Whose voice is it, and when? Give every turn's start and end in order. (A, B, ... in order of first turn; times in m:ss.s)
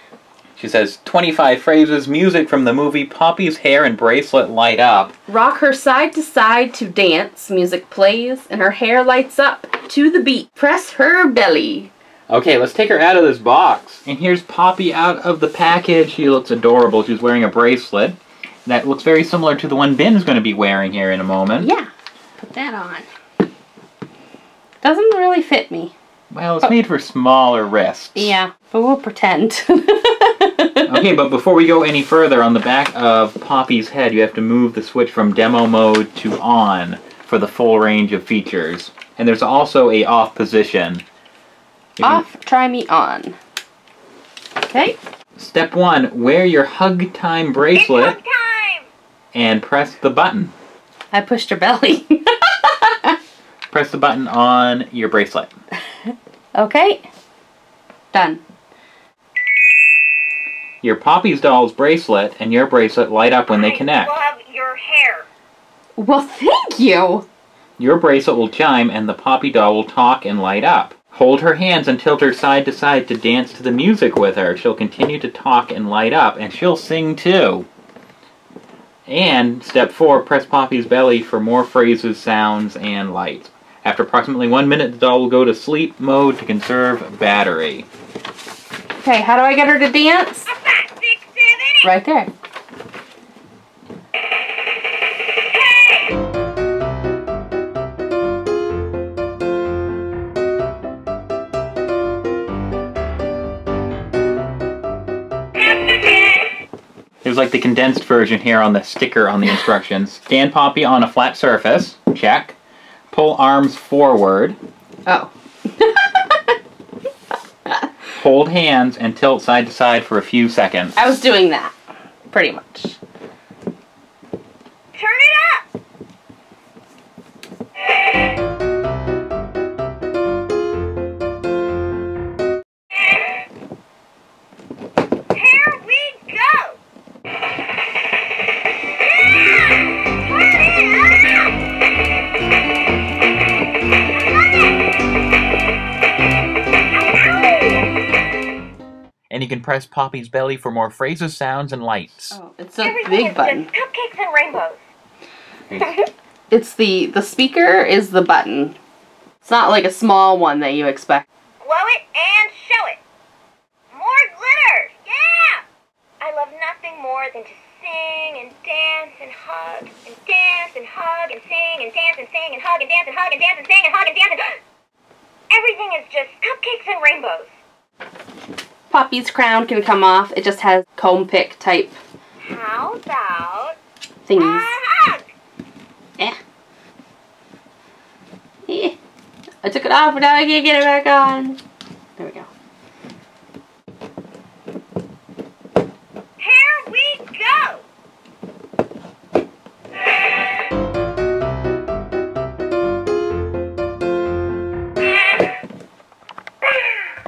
0:00.6-0:05.1 A
0:05.3-0:11.9 B
0:12.3-0:21.7 A
0:21.6-0:21.9 B
0:22.4-0:23.1 B
0:24.8-0:25.9 B
0:26.3-0:28.3 A
0:28.2-0:31.0 B
0:30.9-0:41.0 A
0:42.0-0:42.3 A
0:42.0-0:43.4 B
0:44.6-0:45.0 B
0:45.4-0:48.2 A
0:47.7-0:48.9 C
0:49.3-0:50.5 A
0:51.1-0:53.2 B
0:53.7-0:55.5 A
0:56.5-0:57.0 B
0:58.1-0:58.4 B
1:00.8-1:04.1 A
1:03.5-1:05.2 C
1:06.0-1:07.2 B
1:07.8-1:17.7 A
1:19.1-1:27.9 A
1:29.0-1:30.5 B
1:30.4-1:31.9 C
1:31.8-1:32.3 B
1:35.5-1:36.1 C
1:47.2-1:52.6 A
1:53.1-1:54.6 A
1:55.0-1:56.6 B
1:58.2-2:01.0 A
2:01.0-2:01.7 B
2:02.3-2:03.0 B
2:04.9-2:05.6 C
2:15.3-2:16.8 C
2:19.0-2:21.5 C
2:27.0-2:27.8 C
2:29.3-2:32.4 A
2:32.3-2:33.7 B
2:32.8-2:34.8 C
2:35.8-2:36.0 C
2:36.5-2:38.8 B
2:39.4-2:41.2 B
2:41.6-2:43.0 C
2:43.9-2:45.6 C
2:46.2-2:54.6 C
2:55.5-2:57.5 C
2:58.9-3:02.0 B
3:02.4-3:03.8 C
3:04.2-3:04.7 B
3:04.3-3:05.2 C
3:08.7-3:09.0 B
3:09.6-3:11.6 B
3:12.2-3:12.5 B
3:16.4-3:17.8 C
3:25.0-3:25.5 C
3:26.6-3:27.1 C